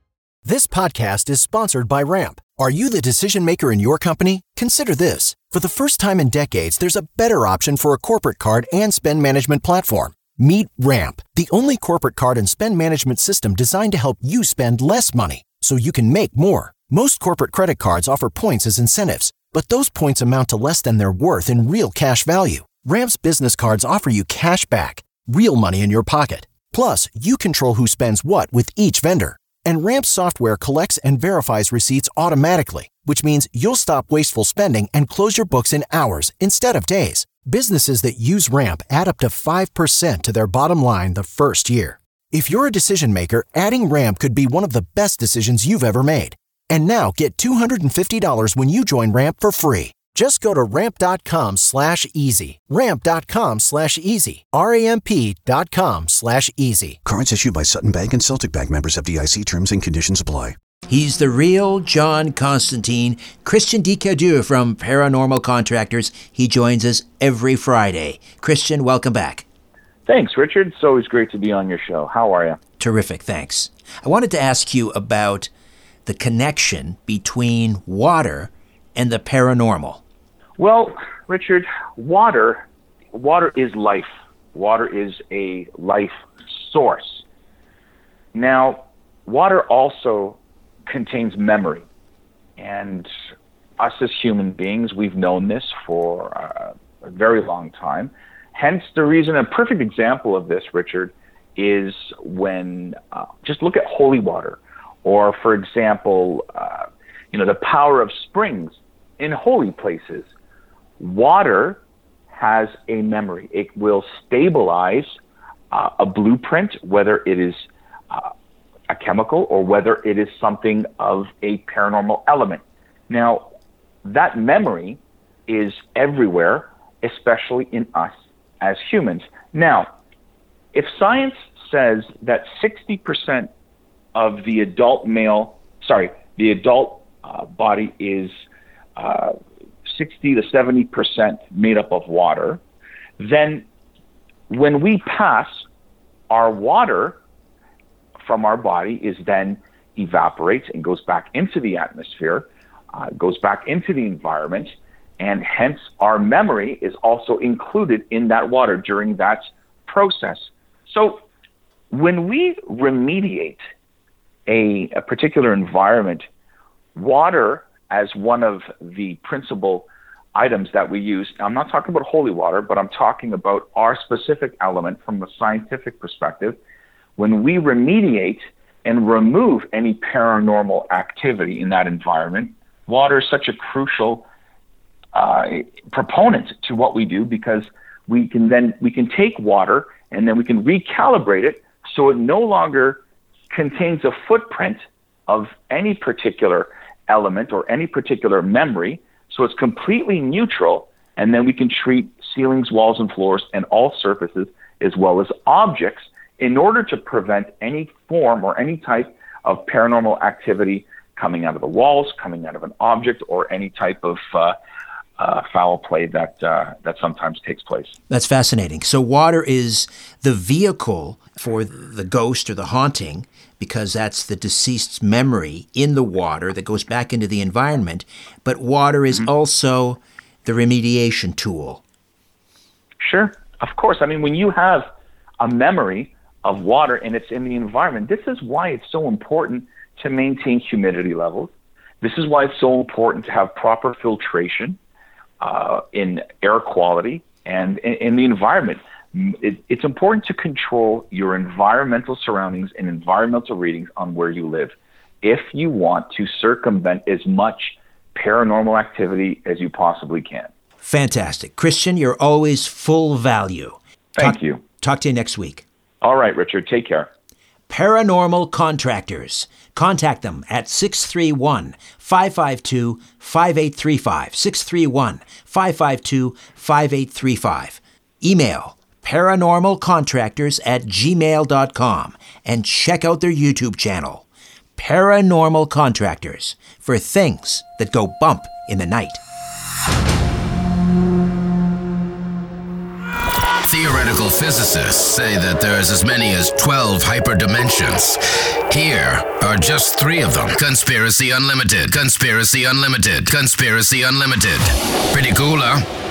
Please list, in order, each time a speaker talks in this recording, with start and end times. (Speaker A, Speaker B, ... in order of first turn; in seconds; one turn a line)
Speaker A: 0.4-57.0
Speaker B: 57.0-60.5
Speaker C: 60.9-69.4
Speaker D: 70.1-72.6
Speaker C: 72.8-75.5
Speaker C: 76.0-80.0
Speaker D: 80.6-87.2
Speaker D: 88.3-91.8
Speaker D: 92.6-93.1
Speaker D: 93.8-110.3
Speaker D: 111.0-115.1
Speaker D: 115.7-118.3
Speaker D: 118.9-123.5
Speaker D: 124.0-129.9
Speaker D: 130.7-133.5
Speaker D: 134.1-138.3
Speaker D: 139.0-139.3
Speaker D: 139.9-142.6
Speaker D: 143.2-143.7
Speaker D: 144.5-145.6
Speaker D: 146.3-147.2
Speaker D: 148.2-161.2
Speaker D: 161.9-163.6
Speaker D: 164.5-166.2
Speaker D: 166.9-176.6
Speaker D: 177.2-184.3
Speaker D: 185.1-214.6
Speaker D: 215.2-217.9
Speaker C: 218.1-231.8
Speaker D: 233.0-234.9
Speaker D: 235.4-244.8
Speaker D: 245.4-260.5
Speaker C: 260.8-265.6
Speaker D: 264.1-264.6
Speaker D: 266.0-267.1
Speaker C: 267.7-289.2
Speaker E: 293.6-305.9